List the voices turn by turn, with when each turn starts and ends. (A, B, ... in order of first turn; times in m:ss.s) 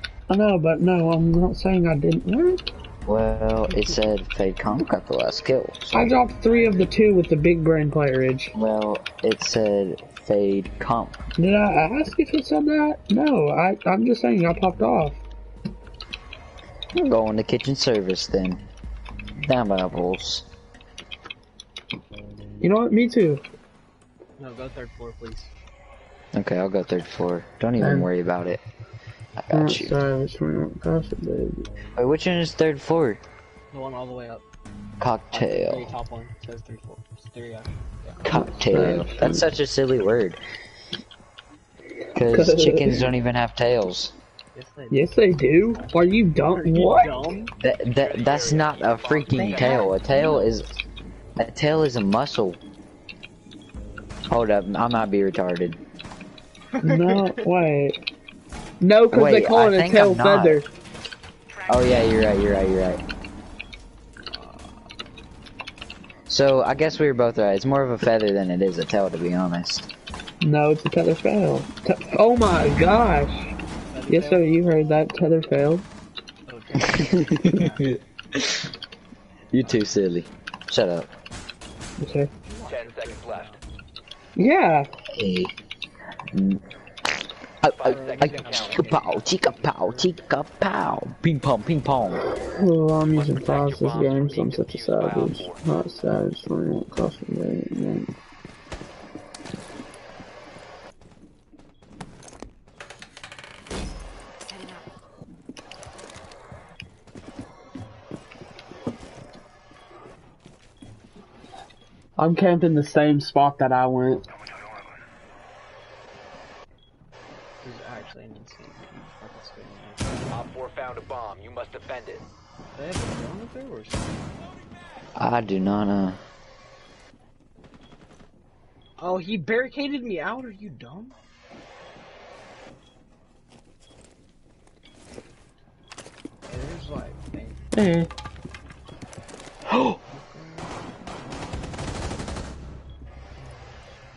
0:00.3-0:02.6 A
0:03.1-0:06.1 B
0:05.9-0:08.6 A
0:06.5-0:07.1 C
0:08.5-0:11.2 B
0:11.4-0:15.2 A
0:16.9-0:18.6 B
0:19.4-0:20.5 B
0:22.6-0:23.4 A
0:24.4-0:25.5 C
0:26.3-0:28.6 B
0:27.8-0:28.1 A
0:29.4-0:30.0 B
0:29.5-0:31.7 A
0:32.0-0:33.2 B
0:33.7-0:34.4 C
0:35.0-0:35.9 B
0:35.3-0:39.0 C
0:38.2-0:40.4 B
0:38.3-0:39.4 A
0:42.1-0:44.2 B
0:42.2-0:43.1 A
0:44.5-0:47.5 C
0:44.9-0:47.4 A
0:47.6-0:50.7 B
0:48.0-0:49.9 D
0:49.3-0:50.8 C
0:51.4-0:52.6 B
0:54.3-0:55.8 B
0:56.8-0:57.5 C
0:56.8-0:58.0 A
0:58.8-1:00.7 A
0:59.1-1:00.6 B
1:01.7-1:03.0 B
1:04.3-1:04.9 C
1:06.3-1:09.9 B
1:10.4-1:13.5 A
1:13.9-1:14.5 C
1:14.1-1:15.8 A
1:16.5-1:17.9 C
1:16.8-1:18.6 B
1:19.5-1:21.1 B
1:19.6-1:19.9 C
1:22.0-1:22.3 A
1:22.4-1:23.6 C
1:22.6-1:23.6 D
1:24.4-1:24.9 A
1:25.1-1:25.5 B
1:26.3-1:26.6 B
1:27.6-1:32.2 B
1:27.8-1:29.1 D
1:27.8-1:30.2 C
1:32.4-1:38.1 A
1:33.1-1:35.6 D
1:52.2-1:54.2 A
1:57.6-2:00.4 C
2:00.3-2:02.2 D
2:02.7-2:04.4 C
2:05.2-2:06.2 B
2:09.0-2:11.2 C
2:16.5-2:17.7 C
2:17.7-2:18.1 A
2:19.7-2:20.0 B
2:20.1-2:21.3 C
2:23.4-2:23.8 C